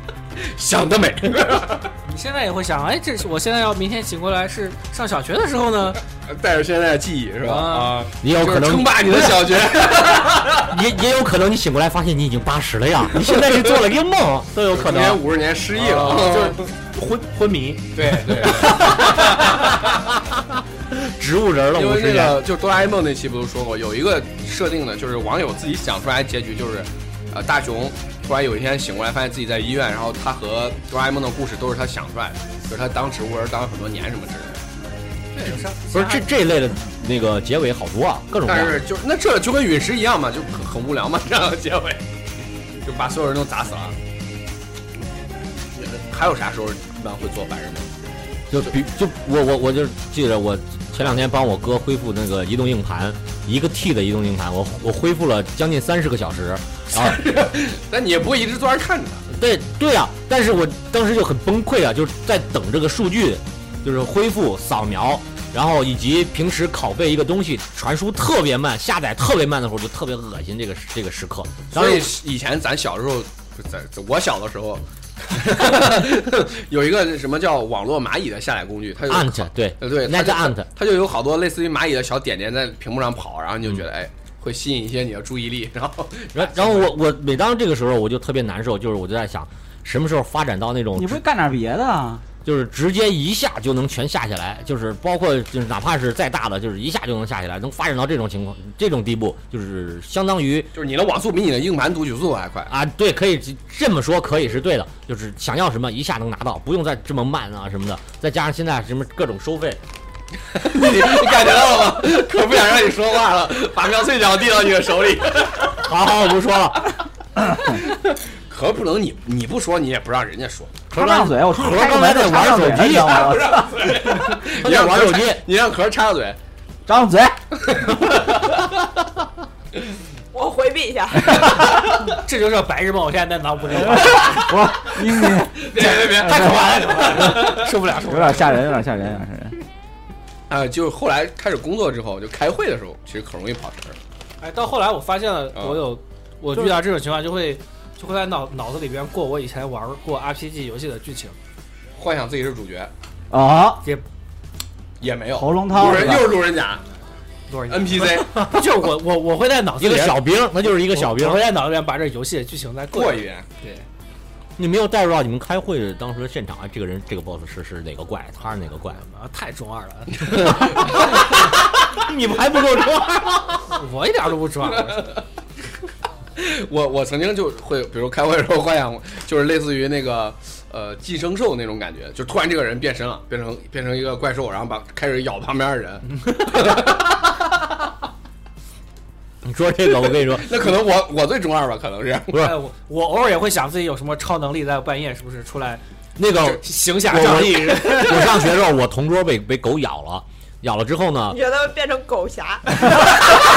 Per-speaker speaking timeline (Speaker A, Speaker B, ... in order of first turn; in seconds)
Speaker A: 0.4-1.9, 6.3-10.7, 13.2-13.6, 14.7-16.7, 17.9-20.0, 21.7-34.6, 38.5-42.0, 42.8-44.0, 45.8-47.9, 56.9-59.2, 71.7-87.0, 100.7-102.7, 110.5-115.8, 117.5-120.8, 123.1-126.4, 127.7-128.5, 135.6-137.7, 140.5-144.0, 145.5-145.9, 152.0-152.9, 155.0-156.8, 157.7-158.4, 162.9-163.5, 174.9-175.2, 176.4-187.1, 190.0-192.5
Speaker B: 2.1-6.0, 7.4-8.1, 15.8-18.6, 35.3-36.3, 131.6-134.7, 135.8-138.8, 144.4-151.4, 157.5-160.2, 160.8-163.8, 169.0-171.0, 173.6-175.1, 192.3-195.8, 196.5-198.5
Speaker C: 8.2-15.2, 18.6-19.6, 20.3-22.4, 35.9-38.8, 48.5-57.2, 59.3-72.1, 79.1-80.7, 86.3-91.2, 92.4-100.7, 102.7-109.8, 115.8-116.9, 120.9-123.2, 124.3-125.4, 159.8-161.5, 164.6-169.0, 170.4-173.8, 189.4-190.7, 196.2-201.4
Speaker D: 91.0-92.2, 120.9-123.9, 126.9-127.4, 133.7-139.6, 153.3-153.8, 155.3-156.4
Speaker E: 130.3-131.5, 201.3-202.9